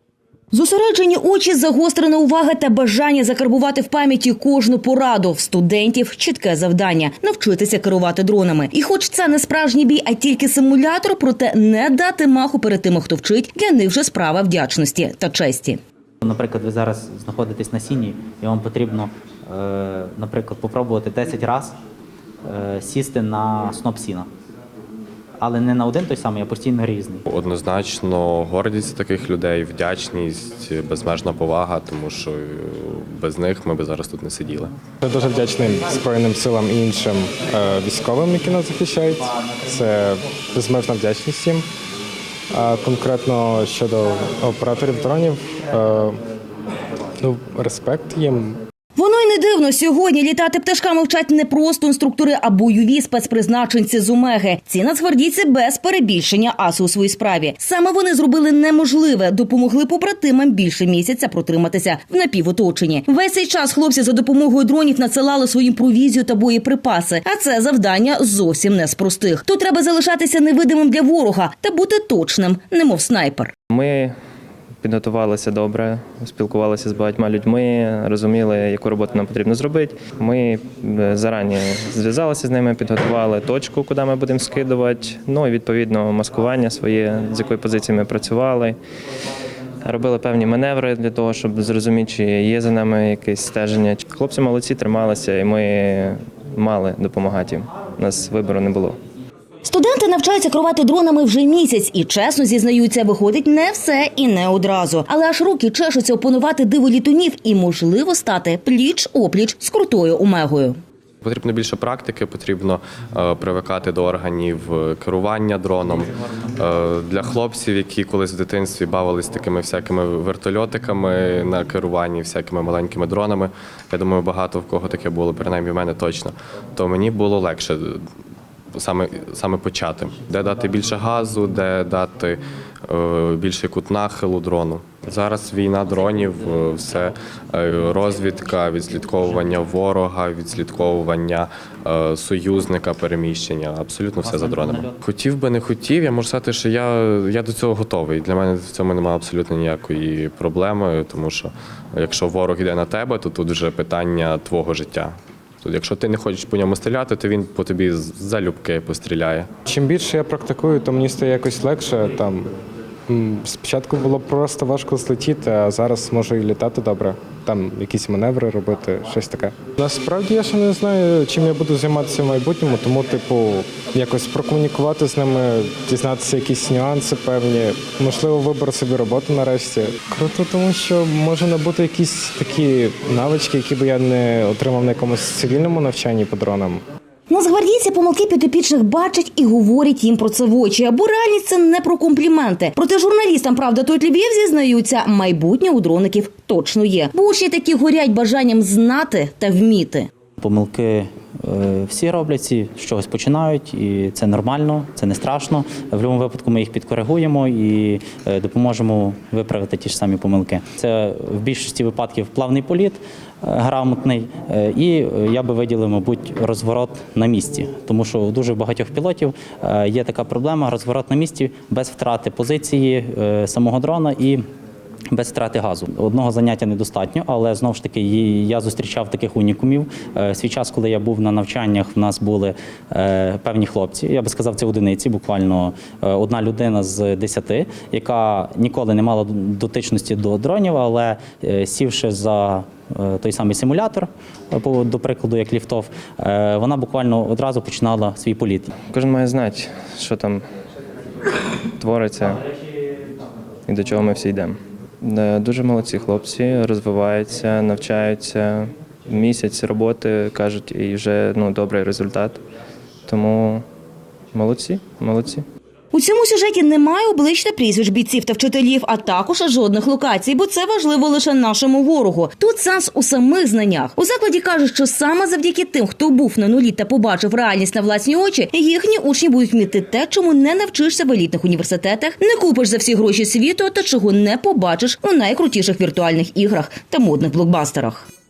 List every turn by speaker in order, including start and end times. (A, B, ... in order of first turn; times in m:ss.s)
0:00.5-0:15.8 A
0:16.2-0:21.8 B
0:22.4-0:24.3 B
0:25.4-0:27.2 B
0:27.3-0:34.7 C
0:35.0-0:41.6 D
0:42.5-0:46.2 D
0:47.2-0:48.6 D
0:49.0-1:13.5 A
1:13.7-1:14.1 E
1:14.8-1:28.8 E
1:29.8-1:39.0 E
1:39.6-1:50.8 A
1:51.2-2:08.0 C
2:08.7-2:39.5 C
2:24.2-2:25.0 B
2:39.6-2:42.5 D
2:43.1-3:06.8 D
3:07.3-3:20.1 A
3:20.4-3:44.4 B
3:45.1-4:08.7 B
4:08.9-4:10.4 E
4:11.8-4:12.4 E
4:13.7-4:22.4 E
4:23.1-4:23.6 E
4:24.3-4:25.4 E
4:25.9-4:48.0 A